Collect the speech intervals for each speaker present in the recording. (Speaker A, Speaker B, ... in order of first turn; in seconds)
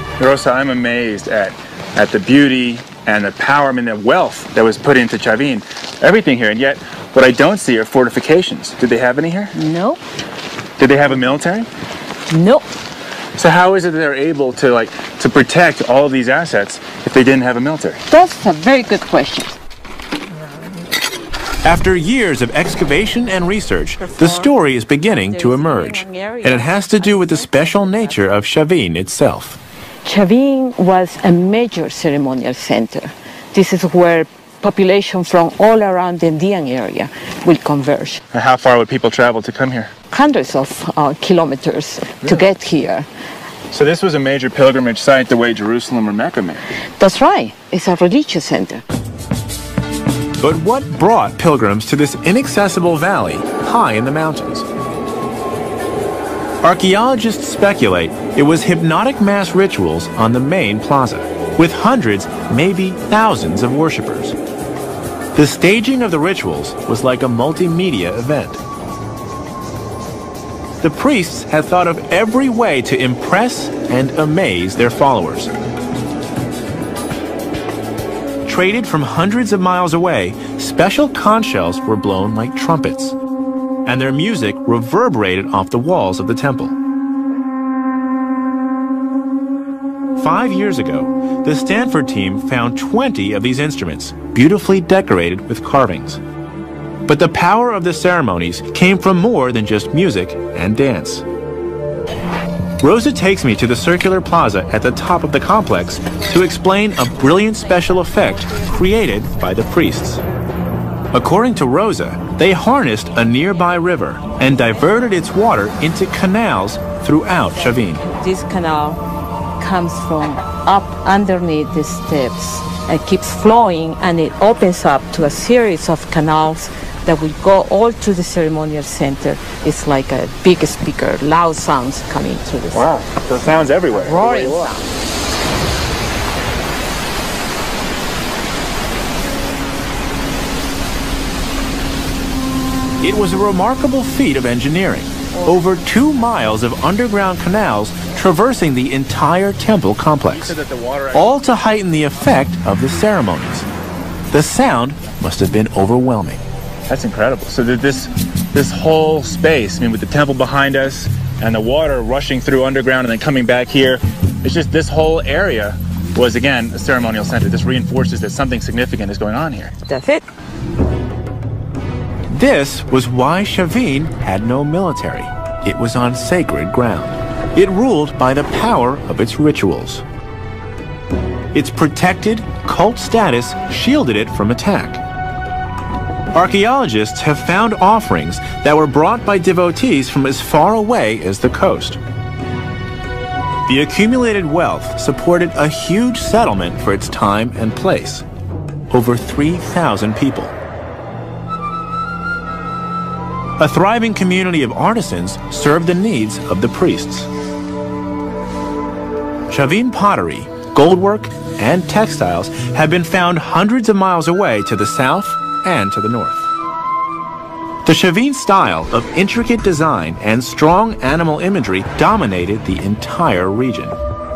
Speaker A: 0.2-9.5, 10.8-11.7, 13.4-18.0, 38.3-39.9, 42.2-42.5, 43.7-46.6, 132.7-134.7, 150.2-151.4, 156.9-169.7
Speaker B: 9.5-10.0, 12.3-12.7, 18.1-19.6, 24.0-28.2, 30.0-38.2, 40.1-43.1, 47.0-48.8, 118.2-119.0, 119.6-132.9, 133.9-134.8, 145.3-146.1, 169.9-170.2
Speaker C: 21.6-29.6, 50.4-54.7, 56.6-64.3, 65.3-68.6, 70.8-75.5, 78.5-83.2, 83.8-86.8, 90.2-96.2, 97.1-101.2, 102.8-110.2, 111.1-118.0, 143.0-150.6, 151.1-153.7, 154.3-156.4, 172.3-180.0, 181.5-185.0, 186.3-192.0, 193.7-198.2, 198.9-200.5, 203.6-207.3, 209.5-216.4, 217.8-224.0